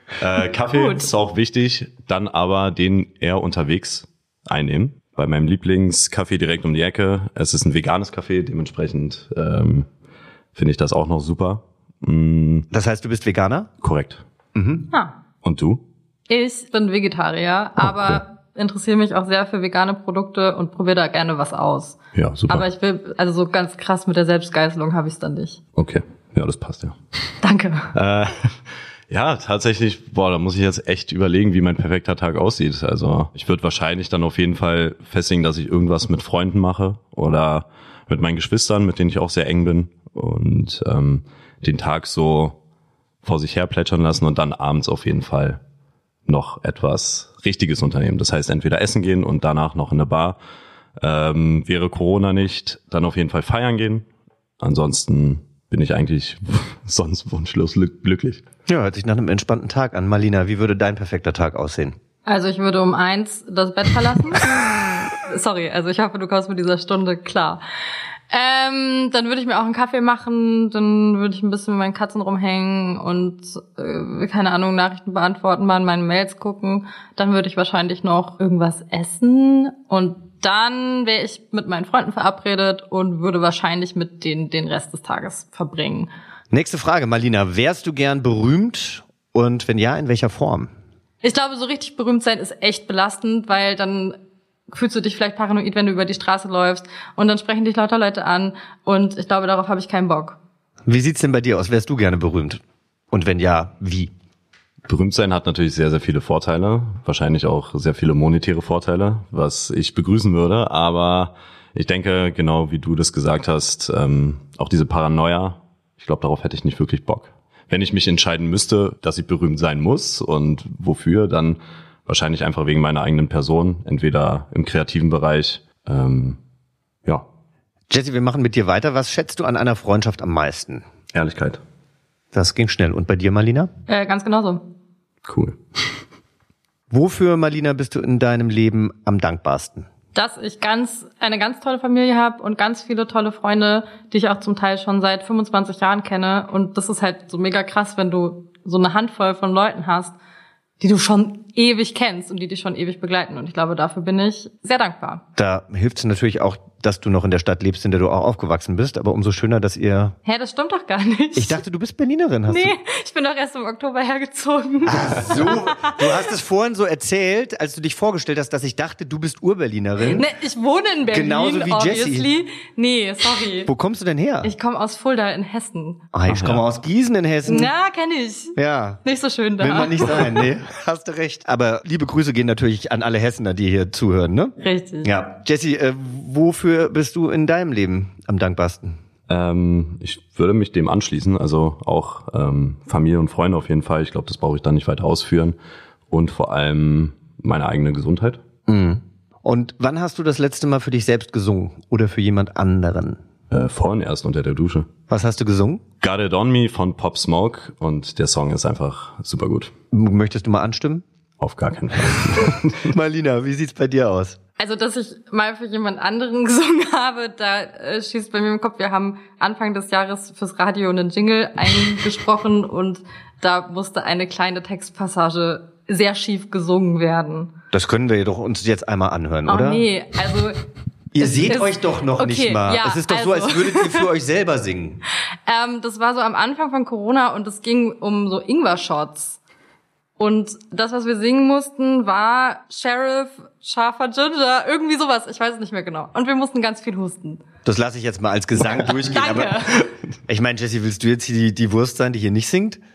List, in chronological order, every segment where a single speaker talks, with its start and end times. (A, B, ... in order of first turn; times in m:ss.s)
0:00.2-0:09.9 A
0:00.7-0:01.1 B
0:10.6-0:12.7 A
0:12.7-0:13.7 C
0:13.8-0:14.2 A
0:14.6-0:14.9 C
0:15.4-0:15.8 A
0:16.3-0:25.6 B
0:17.8-0:18.2 A
0:22.1-0:22.7 A
0:25.8-0:27.0 A
0:27.4-0:27.9 B
0:27.9-0:28.6 A
0:29.1-0:42.6 A
0:43.2-0:45.6 A
0:46.3-0:50.4 A
0:51.0-0:54.1 A
0:54.6-0:58.4 A
0:58.7-1:02.0 C
1:02.3-1:04.6 B
1:05.1-1:07.6 B
1:08.3-1:26.1 B
1:26.5-1:30.7 C
1:31.2-1:34.2 B
1:34.7-1:40.4 B
1:40.9-1:42.6 C
1:43.1-1:44.1 C
1:44.9-2:06.4 A
2:07.9-2:10.8 C
2:11.1-2:11.6 A
2:12.3-2:13.7 C
2:13.9-2:14.6 B
2:15.2-2:16.0 A
2:16.9-2:19.9 C
2:20.2-2:30.2 B
2:30.8-2:35.2 B
2:35.4-2:40.2 C
2:40.3-2:41.6 B
2:41.4-2:42.7 C
2:42.5-2:46.3 B
2:44.9-2:50.3 C
2:50.0-2:53.7 B
2:51.1-2:52.3 C
2:53.7-2:54.5 C
2:54.4-2:56.0 B
2:56.1-2:57.7 C
2:56.3-2:56.6 A
2:57.5-3:00.4 B
2:58.6-2:59.0 C
2:59.6-3:09.0 C
3:04.6-3:05.1 B
3:09.3-3:15.6 A
3:16.1-3:18.4 A
3:18.7-3:23.2 C
3:23.5-3:24.9 A
3:25.1-3:25.8 C
3:26.0-3:29.7 A
3:29.9-3:31.0 C
3:31.4-3:32.9 A
3:32.2-3:34.4 C
3:34.6-3:47.5 B
3:47.7-3:49.8 C
3:49.5-3:50.6 B
3:51.2-3:55.0 C
3:51.2-3:54.1 B
3:55.5-3:59.4 B
4:00.2-4:07.4 B
4:07.6-4:09.6 C
4:09.1-4:09.8 B
4:10.3-4:12.8 C